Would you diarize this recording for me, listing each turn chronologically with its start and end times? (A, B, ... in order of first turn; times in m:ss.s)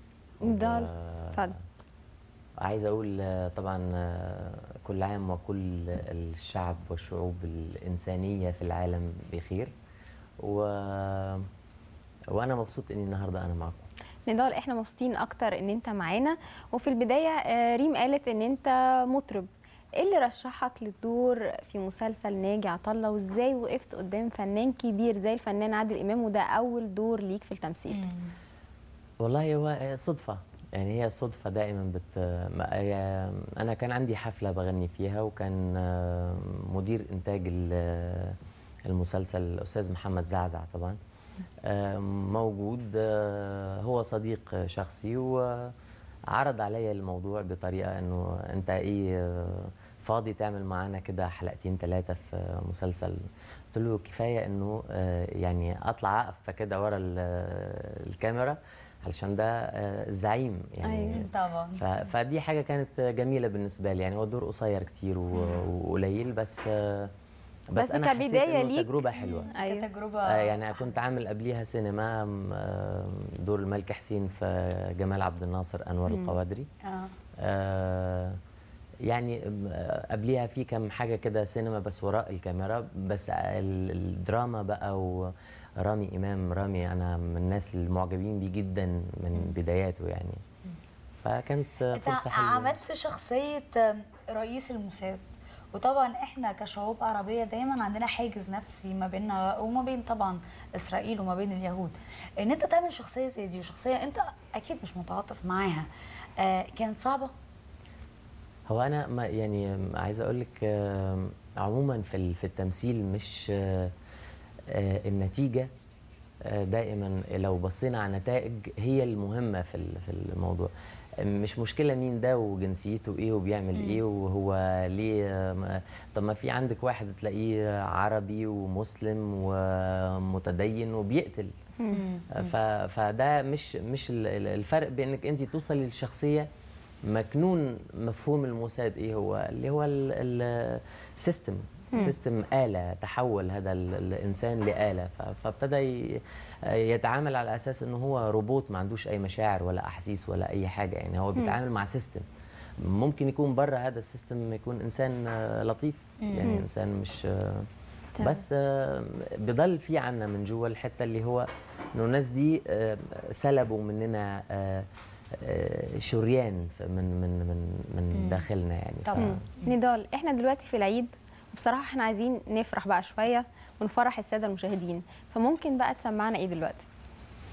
0:00.4-0:01.5 A
0:00.4-0:01.5 B
0:02.6-0:09.7 A
0:10.4-0:11.4 A
0:12.3-0:13.9 A
0:14.3-0:28.0 B
0:27.9-0:28.3 C
0:29.2-0:38.4 A
0:38.9-0:41.0 A
0:41.6-0:45.7 A
0:46.3-0:53.2 A
0:53.7-1:01.3 A
1:00.8-1:01.2 B
1:01.1-1:01.8 C
1:01.8-1:07.1 A
1:07.7-1:09.5 A
1:07.8-1:09.0 B
1:09.2-1:10.9 C
1:09.5-1:09.8 B
1:10.3-1:16.7 A
1:16.1-1:16.3 B
1:16.8-1:17.1 C
1:17.4-1:18.4 A
1:19.1-1:30.4 A
1:31.2-1:32.8 A
1:31.9-1:35.2 C
1:35.7-1:45.9 C
1:46.4-1:47.3 C
1:48.7-1:53.9 A
1:54.7-1:55.7 A
1:56.4-2:00.7 A
2:01.2-2:11.5 A
2:03.7-2:04.0 C
2:11.9-2:12.5 C
2:12.4-2:16.5 A
2:17.1-2:32.2 A
2:32.8-2:37.7 A
2:36.2-2:36.5 C
2:38.2-2:38.4 B
2:38.2-2:44.9 A
2:45.4-2:49.4 A
2:48.1-2:48.4 C
2:49.0-2:49.7 C
2:49.2-2:56.8 B